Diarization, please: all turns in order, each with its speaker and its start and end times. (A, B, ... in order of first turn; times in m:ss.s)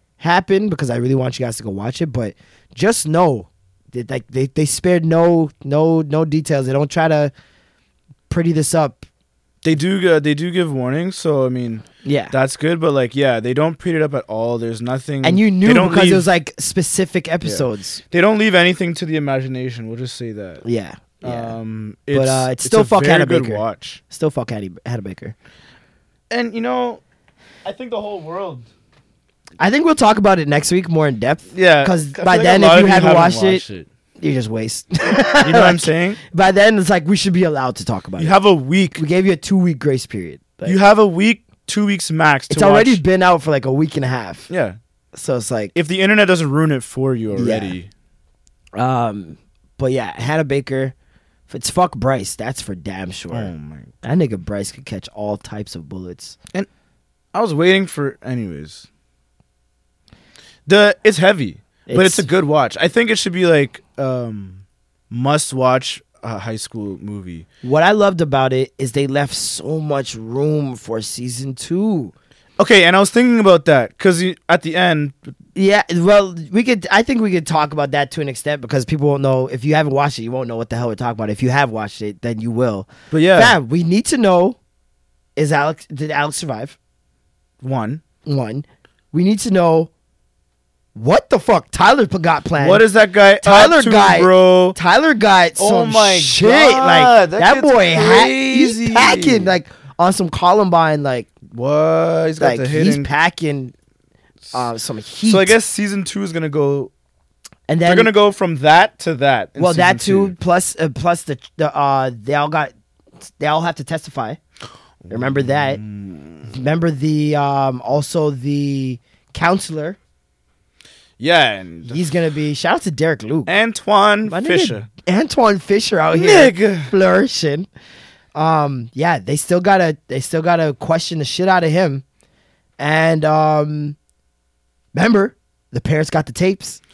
0:00.2-0:07.3 A
0:08.3-0:09.1 A
0:09.6-0:16.3 B
0:12.0-0:12.4 A
0:15.2-0:18.0 A
0:17.4-0:20.6 B
0:20.6-0:21.6 A
0:21.2-0:24.0 B
0:22.1-0:25.4 A
0:26.3-0:27.0 B
0:27.6-0:28.7 B
0:29.6-0:33.6 A
0:31.5-0:33.9 B
0:34.2-0:38.4 A
0:35.4-0:36.2 B
0:38.2-0:39.0 B
0:39.0-0:40.8 A
0:40.6-0:43.0 B
0:42.5-0:44.5 A
0:44.5-0:44.8 B
0:45.1-0:45.7 A
0:45.8-0:47.9 B
0:47.3-0:47.8 A
0:48.7-0:50.9 A
0:51.5-0:53.5 A
0:53.3-0:53.9 B
0:54.0-0:56.4 A
0:57.3-0:58.9 B
1:00.7-1:07.5 B
1:01.9-1:02.3 A
1:07.6-1:12.1 A
1:12.6-1:15.3 B
1:15.6-1:24.6 A
1:23.1-1:23.6 B
1:25.4-1:26.8 A
1:27.6-1:28.0 B
1:28.2-1:29.9 A
1:31.0-1:32.9 A
1:32.6-1:34.8 B
1:33.4-1:41.3 A
1:35.6-1:39.5 B
1:41.5-1:43.1 B
1:42.4-1:43.7 A
1:44.5-1:45.6 A
1:45.2-1:46.9 B
1:47.7-1:48.1 A
1:47.8-1:50.4 B
1:49.6-1:52.7 A
1:53.2-1:54.4 A
1:55.0-1:56.5 B
1:55.1-1:55.8 A
1:56.5-2:00.0 A
2:01.2-2:02.0 B
2:01.9-2:03.6 A
2:03.5-2:04.9 B
2:04.2-2:07.7 A
2:06.1-2:06.9 B
2:08.4-2:12.0 A
2:12.8-2:14.0 A
2:14.9-2:16.8 A